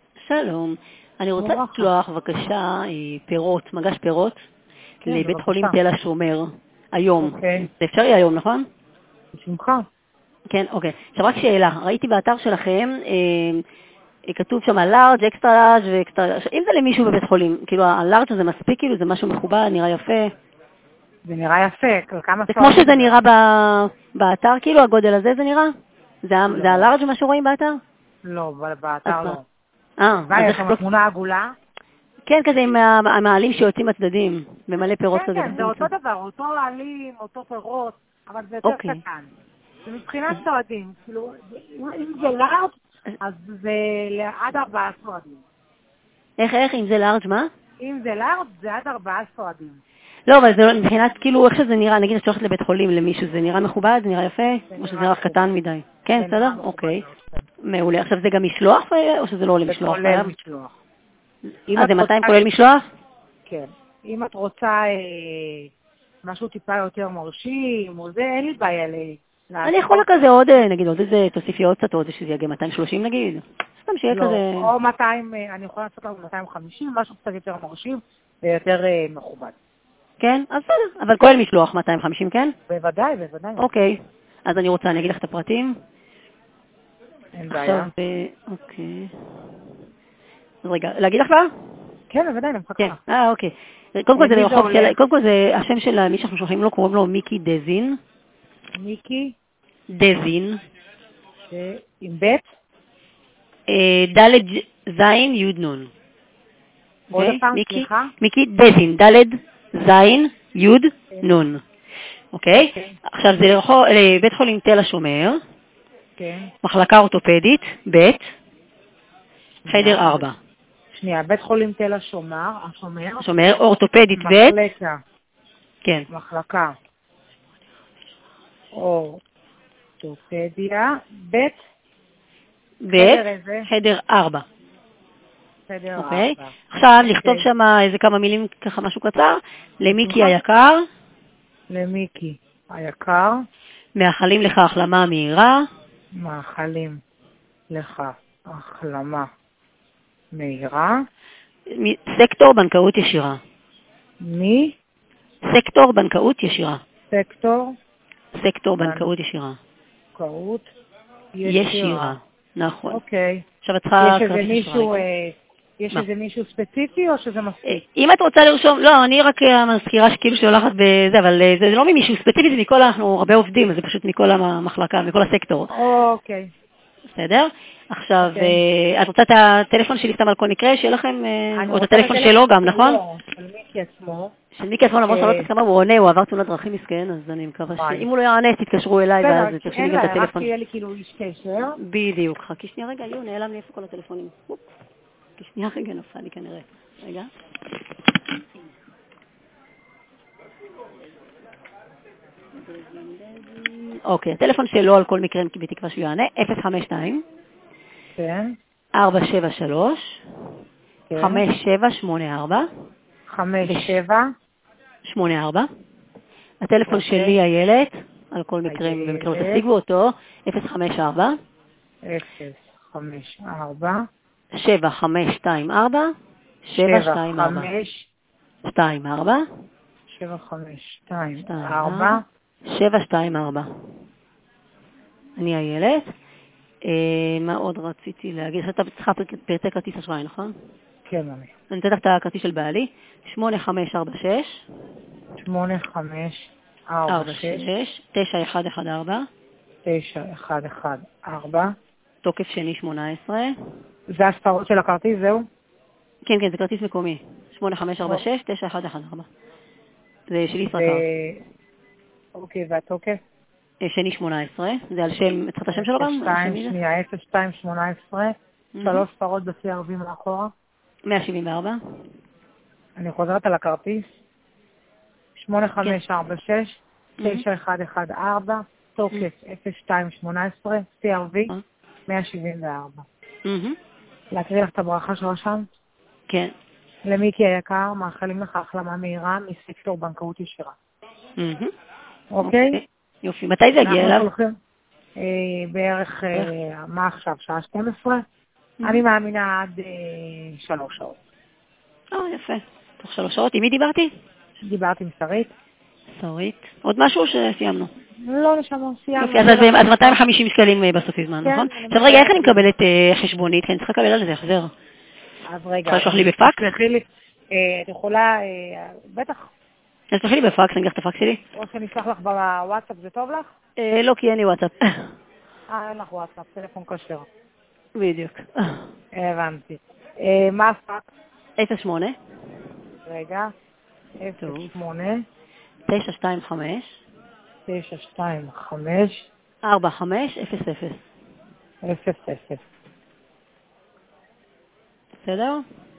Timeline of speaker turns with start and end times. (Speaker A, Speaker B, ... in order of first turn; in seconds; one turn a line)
Speaker A: 0.2-4.4
Speaker B: 1.4-1.9
Speaker A: 5.0-8.6
Speaker B: 5.0-5.8
Speaker B: 7.2-7.7
Speaker B: 9.3-9.8
Speaker A: 10.5-13.6
Speaker A: 14.2-20.3
Speaker B: 21.2-23.2
Speaker A: 22.5-25.7
Speaker A: 26.2-27.8
Speaker B: 26.5-26.9
Speaker B: 28.2-29.4
Speaker A: 29.0-29.4
Speaker A: 30.0-30.8
Speaker B: 30.3-31.5
Speaker A: 32.2-35.9
Speaker B: 35.1-39.3
Speaker A: 38.6-39.0
Speaker B: 39.9-45.4
Speaker A: 46.4-47.5
Speaker B: 47.8-49.8
Speaker A: 50.3-57.0
Speaker B: 54.7-55.4
Speaker B: 56.1-57.5
Speaker A: 57.6-60.3
Speaker B: 59.6-60.7
Speaker B: 61.7-62.5
Speaker A: 61.7-62.9
Speaker B: 63.5-65.7
Speaker B: 66.2-70.2
Speaker A: 69.6-74.7
Speaker B: 74.1-79.5
Speaker A: 80.2-82.5
Speaker B: 82.7-83.9
Speaker A: 83.6-85.7
Speaker B: 87.3-87.9
Speaker A: 87.5-89.1
Speaker A: 90.6-91.5
Speaker B: 92.1-93.0
Speaker A: 92.8-98.0
Speaker B: 94.2-94.9
Speaker B: 98.8-99.3
Speaker A: 99.9-100.6
Speaker B: 101.5-102.5
Speaker A: 103.7-105.9
Speaker B: 107.1-108.1
Speaker A: 107.1-111.6
Speaker B: 111.1-111.4
Speaker A: 112.3-115.4
Speaker B: 112.5-113.0
Speaker B: 116.2-116.5
Speaker A: 116.6-118.3
Speaker B: 119.6-120.3
Speaker A: 119.7-120.3
Speaker B: 120.9-123.6
Speaker A: 123.2-124.6
Speaker B: 124.1-125.0
Speaker B: 126.1-126.7
Speaker B: 128.8-129.2
Speaker B: 130.0-131.6
Speaker A: 132.8-134.4
Speaker B: 132.9-133.7
Speaker B: 135.7-137.5
Speaker A: 135.9-140.8
Speaker B: 139.9-140.4
Speaker B: 141.7-143.4
Speaker A: 143.9-145.6
Speaker B: 146.2-147.0
Speaker B: 147.7-149.3
Speaker B: 150.3-150.9
Speaker A: 151.7-153.4
Speaker B: 154.2-154.7
Speaker A: 155.5-156.8
Speaker B: 157.1-157.7
Speaker A: 158.4-159.6
Speaker B: 158.8-159.1
Speaker B: 160.1-160.7
Speaker B: 161.3-162.1
Speaker A: 161.4-163.0
Speaker B: 162.9-163.4
Speaker A: 163.6-165.0
Speaker B: 164.0-167.8
Speaker A: 167.6-175.7
Speaker B: 175.7-176.5
Speaker A: 177.1-183.0
Speaker B: 178.2-178.6
Speaker B: 181.5-184.3
Speaker A: 184.5-190.5
Speaker B: 185.1-185.5
Speaker B: 187.8-188.1
Speaker B: 189.2-191.8
Speaker A: 191.8-194.6
Speaker A: 195.4-197.3
Speaker A: 202.8-207.2
Speaker B: 208.1-208.5
Speaker A: 208.9-210.2
Speaker B: 211.1-211.4
Speaker A: 211.2-212.7
Speaker B: 213.3-214.2
Speaker A: 213.6-213.9
Speaker A: 215.1-215.7
Speaker A: 216.6-221.3
Speaker B: 216.9-217.4
Speaker B: 218.7-219.6
Speaker B: 222.1-224.0
Speaker A: 224.6-226.1
Speaker A: 226.6-227.7
Speaker B: 226.8-228.1
Speaker A: 228.6-229.4
Speaker B: 230.1-232.2
Speaker A: 231.4-232.2
Speaker A: 232.7-233.7
Speaker A: 235.4-236.1
Speaker A: 236.8-240.5
Speaker B: 241.1-241.5
Speaker A: 241.7-244.6
Speaker B: 245.4-247.6
Speaker A: 247.1-249.2
Speaker B: 249.8-251.7
Speaker A: 252.2-253.5
Speaker B: 254.1-255.4
Speaker A: 256.2-259.3
Speaker A: 260.3-261.0
Speaker B: 260.6-261.4
Speaker B: 262.4-263.2
Speaker A: 263.8-266.8
Speaker B: 265.7-270.5
Speaker A: 268.7-269.1
Speaker A: 271.1-271.8
Speaker B: 273.0-274.1
Speaker B: 275.4-281.5
Speaker A: 277.2-277.4
Speaker B: 282.1-283.1
Speaker A: 283.4-283.8
Speaker B: 284.3-285.7
Speaker B: 287.0-290.7
Speaker A: 291.4-291.7
Speaker B: 292.3-292.8
Speaker A: 292.4-294.3
Speaker B: 293.8-294.5
Speaker B: 295.2-298.2
Speaker A: 298.8-299.0
Speaker B: 298.8-301.1
Speaker A: 302.1-304.1
Speaker B: 304.6-305.5
Speaker A: 306.1-307.9
Speaker B: 308.2-310.2
Speaker A: 309.2-314.7
Speaker B: 311.4-312.7
Speaker B: 315.5-319.5
Speaker A: 315.9-316.7
Speaker A: 320.1-321.4
Speaker B: 321.6-323.5
Speaker A: 323.8-325.1
Speaker B: 325.7-327.2
Speaker A: 327.9-328.9
Speaker B: 329.1-331.1
Speaker A: 331.6-332.1
Speaker B: 333.1-333.5
Speaker B: 334.2-335.2
Speaker A: 334.4-334.7
Speaker A: 335.9-337.0
Speaker B: 337.7-339.3
Speaker A: 339.6-341.1
Speaker B: 341.8-342.6
Speaker A: 345.2-345.6